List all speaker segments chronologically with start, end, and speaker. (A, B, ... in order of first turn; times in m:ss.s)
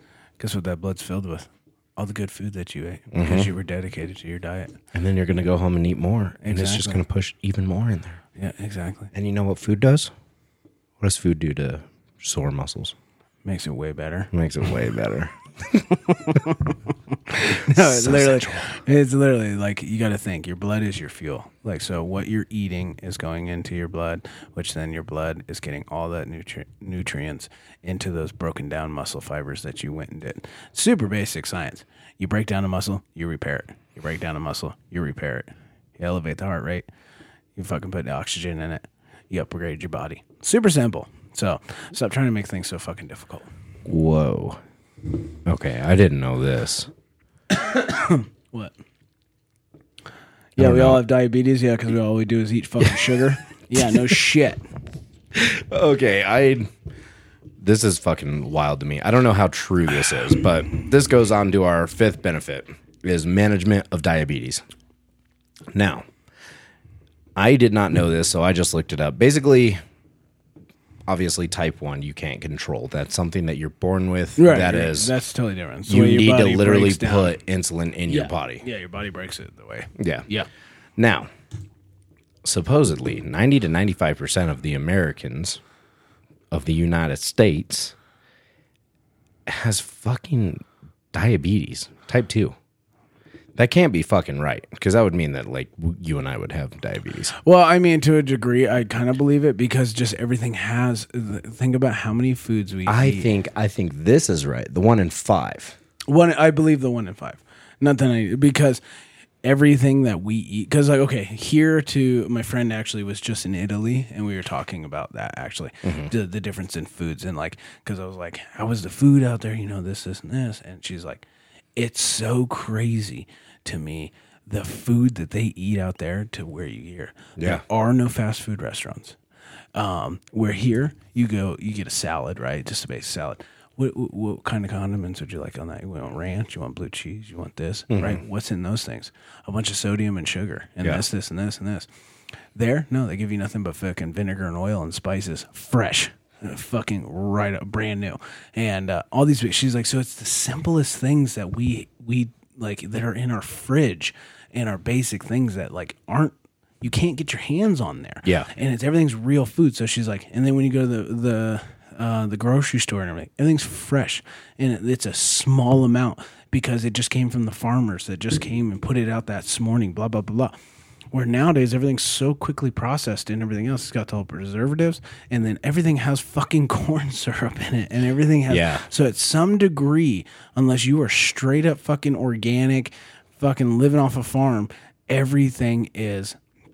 0:00.4-0:04.7 A
0:03.1-0:03.5 B
0:04.9-0:08.2 B
0:06.4-0:07.0 A
0:08.4-0:09.1 A
0:09.1-0:10.1 B
0:11.0-0:12.9 B
0:13.4-0:14.3 A
0:14.3-0:16.4 B
0:16.1-0:36.8 A
0:17.5-0:18.7 B
0:37.6-0:43.5 A
0:43.8-0:44.6 B
0:45.4-0:46.9 B
0:47.5-0:48.7 A
0:50.6-0:51.0 B
0:50.6-0:54.6 A
0:55.3-0:56.7 B
0:57.6-1:04.6 B
1:05.7-1:06.0 B
1:07.4-1:09.8 B
1:11.1-1:15.1 B
1:14.4-1:17.3 A
1:15.9-1:18.6 B
1:18.1-1:20.5 A
1:20.0-1:20.3 B
1:21.0-1:21.3 B
1:22.4-1:25.6 B
1:26.5-1:27.9 B
1:29.5-1:32.6 B
1:33.6-1:37.3 B
1:37.4-1:43.3 A
1:42.8-1:45.8 B
1:46.1-1:48.8 A
1:49.4-2:09.2 A
1:55.8-1:56.1 B
2:07.4-2:07.6 B
2:09.7-2:21.9 A
2:17.9-2:18.2 B
2:22.5-2:50.6 A
2:38.2-2:38.5 B
2:51.1-3:06.4 A
2:58.5-2:58.8 B